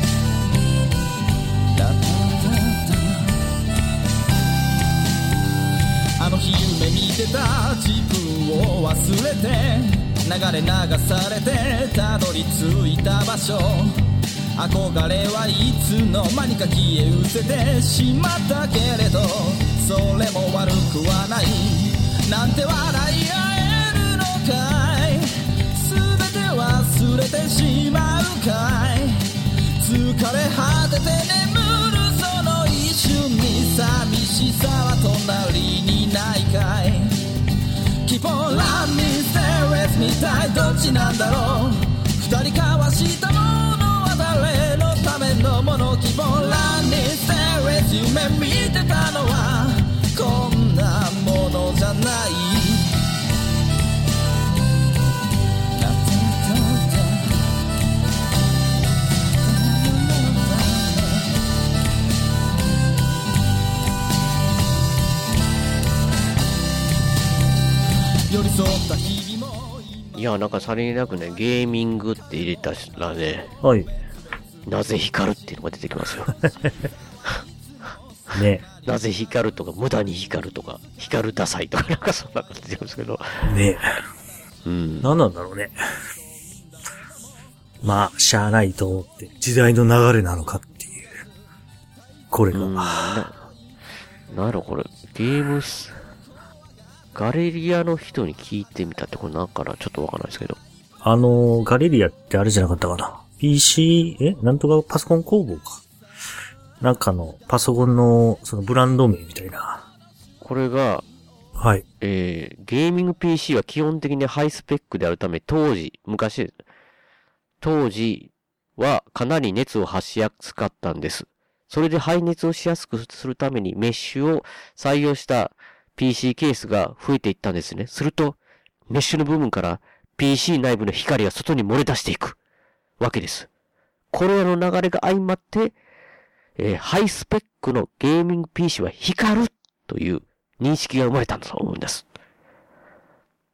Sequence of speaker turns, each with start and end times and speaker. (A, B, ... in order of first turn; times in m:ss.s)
0:01.8-0:03.3 A
0:06.2-0:13.9 A
0:14.6-0:29.2 A
0:29.8-0:37.1 A
0:38.1-0:53.0 A
0:55.8-0:57.2 A
0:59.4-1:01.2 A
1:08.3-1:10.1 A
1:10.2-1:13.5 B
1:13.6-1:13.9 C
1:14.7-1:16.3 B
1:18.3-1:18.6 C
1:18.8-1:23.5 B
1:23.4-1:24.0 C
1:24.6-1:25.1 B
1:25.0-1:25.8 C
1:27.8-1:31.2 C
1:32.3-1:33.2 C
1:32.5-1:33.4 B
1:34.3-1:36.0 B
1:37.2-1:40.6 B
1:41.0-1:45.8 C
1:46.8-1:49.8 C
1:50.4-1:51.0 B
1:51.6-1:51.8 C
1:52.0-1:56.5 B
1:57.6-2:08.4 B
2:08.9-2:12.4 B
2:13.0-2:13.5 B
2:14.1-2:15.8 B
2:16.6-2:22.0 B